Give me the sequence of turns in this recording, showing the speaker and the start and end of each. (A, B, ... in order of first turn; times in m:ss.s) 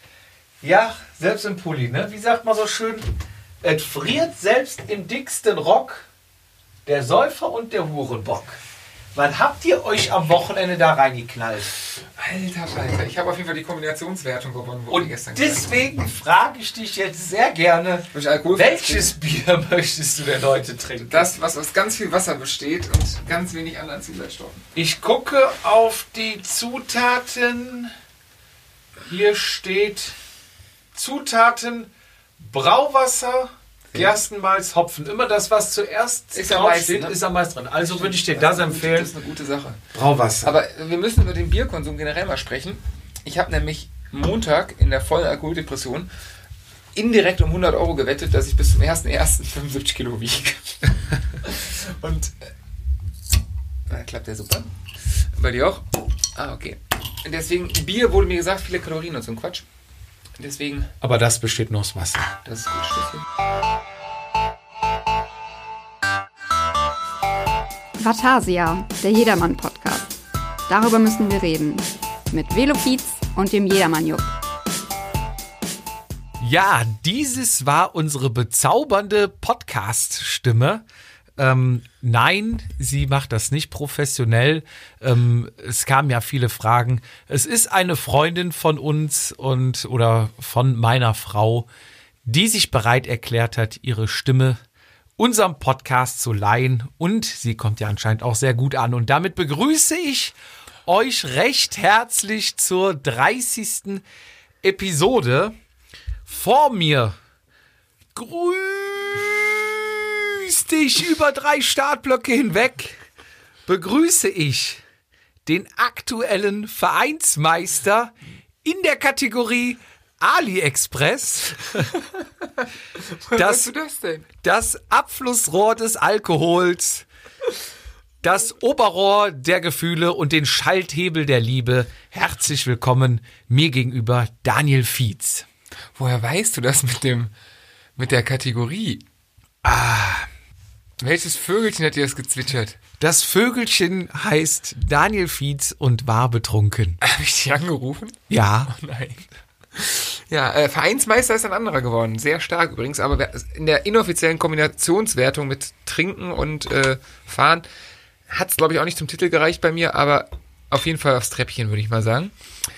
0:00.6-0:03.1 A
0:03.6-0:06.1 A
0:06.8-0:08.6 A
0:09.1-0:11.7 A
0:12.2-0:15.8 B
0:14.9-0:21.3 A
0:18.1-0:19.1 B
0:21.0-0:24.6 B
0:24.7-0:27.9 A
0:29.0-0:30.1 A
0:30.9-0:39.1 A
0:36.3-0:37.2 B
0:37.8-0:39.8 B
0:39.9-0:40.5 A
0:40.4-0:46.1 B
0:46.9-0:52.4 B
0:53.9-0:54.7 B
0:55.3-0:59.6 B
1:00.4-1:00.9 B
1:01.0-1:02.3 A
1:02.4-1:03.2 B
1:08.0-1:10.1 C
1:10.7-1:14.3 C
1:16.4-1:20.8 A
1:21.4-1:31.7 A
1:32.2-1:34.6 A
1:35.2-1:40.3 A
1:40.8-1:44.0 A
1:44.6-1:45.5 A
1:46.2-1:47.1 A
1:48.1-1:53.0 A
1:53.6-1:54.8 A
1:55.4-1:58.1 A
1:58.6-2:01.9 A
2:03.2-2:04.3 B
2:03.3-2:03.7 A
2:04.4-2:07.0 A
2:08.2-2:15.4 A
2:16.0-2:17.3 B
2:18.0-2:19.0 B
2:19.6-2:20.3 A
2:21.0-2:22.8 B
2:23.0-2:27.0 A
2:27.0-2:37.6 B
2:28.3-2:28.7 A
2:38.3-2:42.3 B